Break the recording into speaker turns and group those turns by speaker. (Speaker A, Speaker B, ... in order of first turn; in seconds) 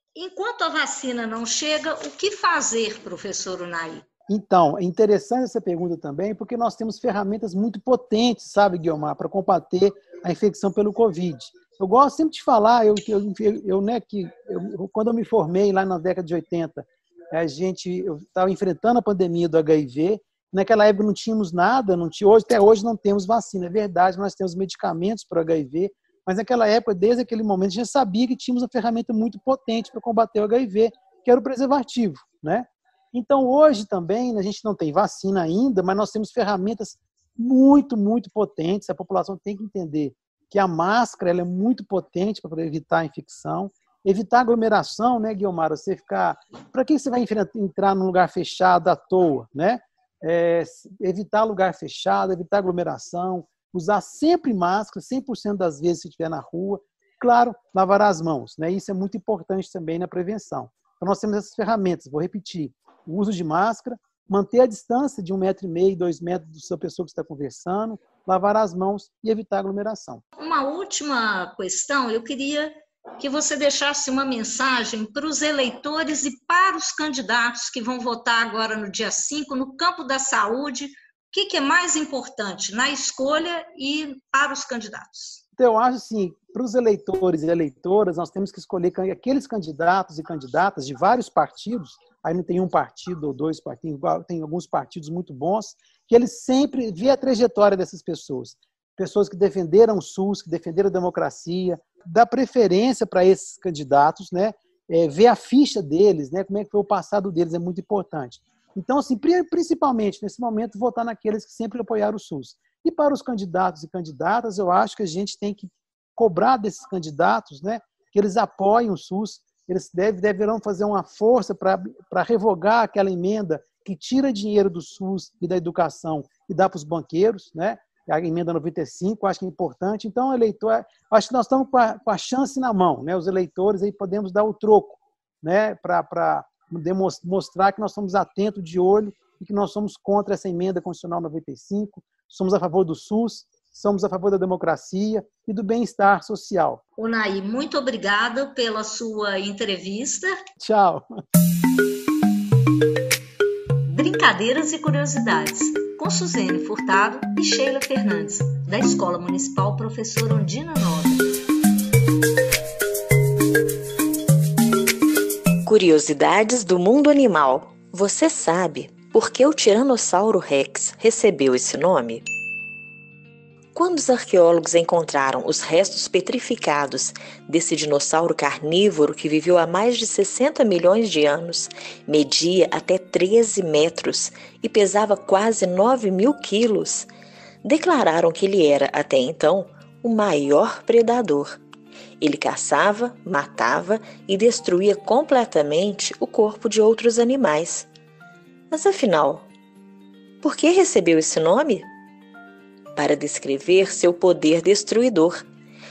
Speaker A: 0.1-4.0, 70.4-85.4, 147.0-150.3, 153.8-161.3
Speaker B: 4.3-70.2, 85.6-146.8, 150.6-151.0
Speaker C: 165.7-172.2, 173.7-187.1, 187.6-191.6, 192.2-197.9, 198.7-199.5, 200.4-201.9, 202.9-205.4